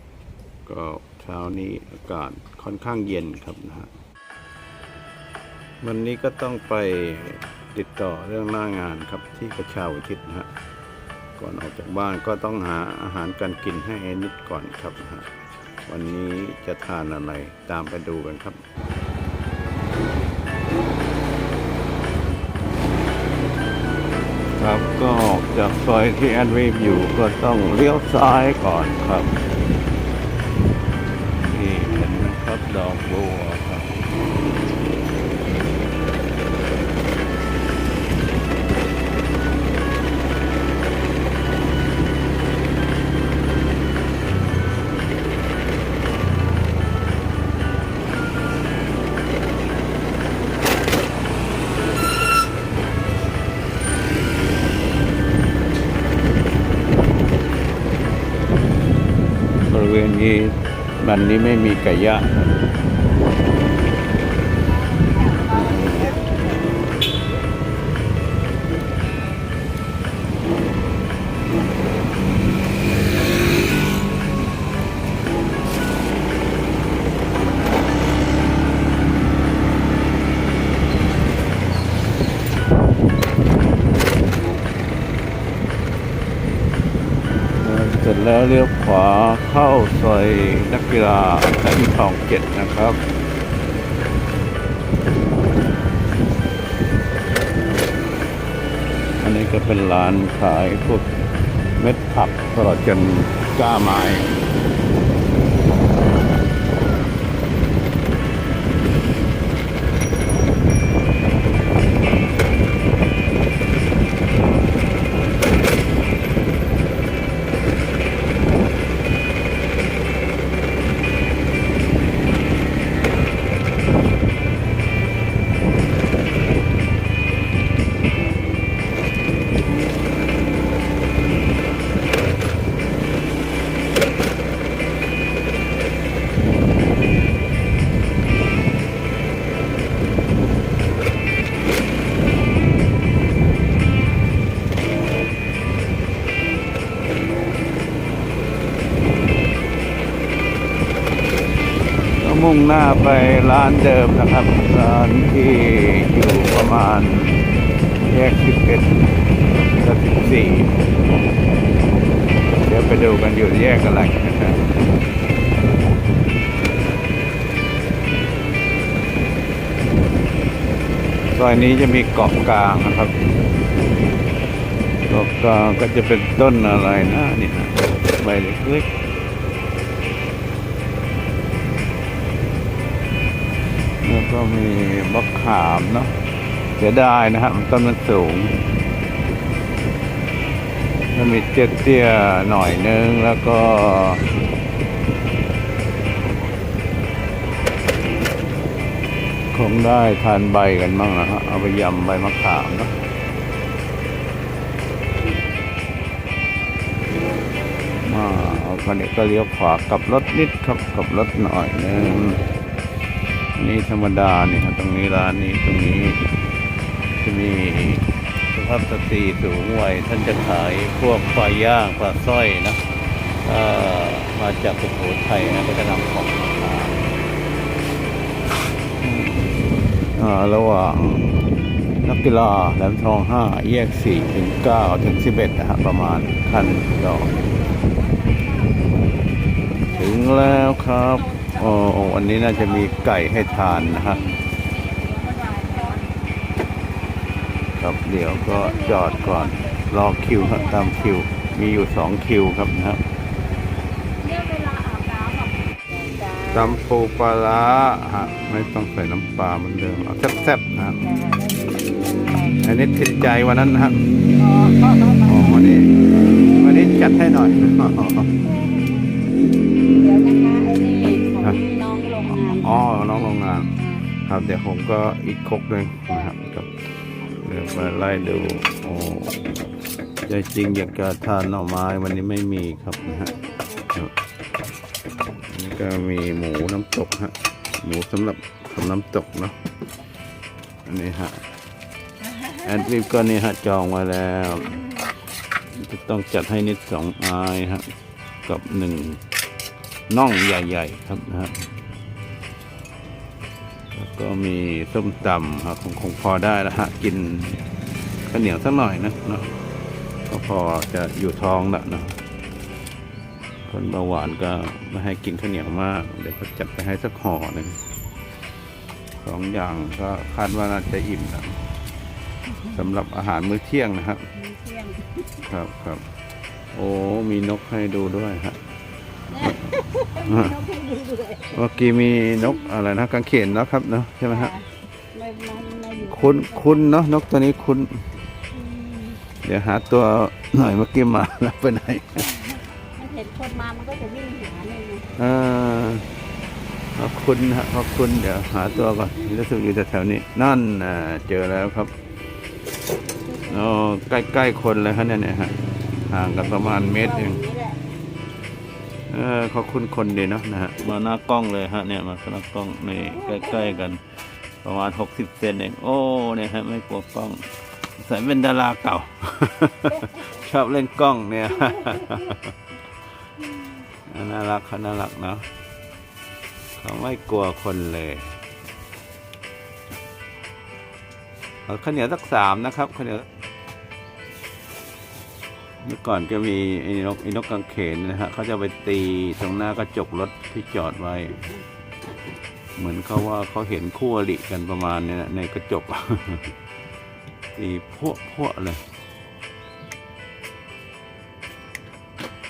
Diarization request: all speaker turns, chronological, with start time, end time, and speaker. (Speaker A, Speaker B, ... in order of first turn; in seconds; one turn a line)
Speaker A: 0.7-3.9
Speaker A: 5.8-10.5
Speaker A: 11.4-15.3
Speaker A: 15.8-18.6
Speaker A: 24.6-29.4
Speaker A: 31.4-34.0
Speaker A: 59.6-62.5
Speaker A: 65.5-66.3
Speaker A: 87.5-93.0
Speaker A: 99.2-101.1
Speaker A: 101.8-104.3
Speaker A: 152.2-157.4
Speaker A: 158.0-159.0
Speaker A: 159.8-160.8
Speaker A: 162.6-164.6
Speaker A: 171.3-173.1
Speaker A: 175.1-178.9
Speaker A: 184.0-186.1
Speaker A: 186.8-188.6
Speaker A: 191.1-194.3
Speaker A: 199.5-202.9
Speaker A: 208.0-212.4
Speaker A: 213.6-216.2
Speaker A: 217.2-222.8
Speaker A: 223.4-227.1
Speaker A: 229.0-229.6
Speaker A: 230.1-231.4
Speaker A: 232.0-237.4
Speaker B: 237.4-239.0
Speaker B: 239.9-241.9
Speaker A: 239.9-244.2
Speaker B: 242.8-246.2
Speaker A: 247.8-253.0
Speaker B: 248.4-249.8
Speaker B: 250.3-251.6
Speaker B: 254.2-256.8
Speaker A: 256.5-261.1
Speaker B: 261.0-262.6
Speaker A: 262.6-264.2
Speaker B: 264.4-265.6
Speaker A: 265.2-268.3
Speaker B: 266.2-266.7
Speaker B: 268.4-269.1
Speaker B: 269.8-272.9
Speaker A: 272.3-276.7
Speaker A: 277.4-279.3
Speaker A: 280.2-283.4
Speaker B: 283.3-283.7
Speaker A: 285.5-289.6
Speaker A: 290.8-291.4
Speaker A: 292.6-294.8
Speaker A: 295.7-297.9
Speaker A: 298.4-299.2
Speaker A: 300.1-301.7
Speaker A: 303.9-307.6
Speaker A: 308.3-309.5
Speaker A: 310.3-312.1
Speaker A: 313.7-317.8
Speaker A: 319.2-321.6
Speaker A: 322.7-324.2
Speaker B: 324.3-325.2
Speaker A: 325.4-326.0
Speaker A: 326.7-328.6
Speaker B: 329.3-331.6
Speaker A: 330.2-330.6
Speaker A: 331.5-334.5
Speaker B: 334.3-336.9
Speaker A: 336.1-338.0
Speaker B: 338.5-339.2
Speaker A: 339.4-342.3
Speaker B: 342.9-345.1
Speaker A: 345.1-346.1
Speaker A: 346.9-351.9
Speaker B: 353.3-353.6
Speaker A: 353.5-357.4
Speaker B: 356.4-357.8
Speaker A: 359.1-364.1
Speaker B: 363.1-363.7
Speaker A: 364.6-372.5
Speaker A: 374.1-375.5
Speaker A: 376.8-378.4
Speaker A: 381.7-383.3
Speaker A: 385.8-391.4
Speaker A: 392.8-396.5
Speaker A: 397.5-398.8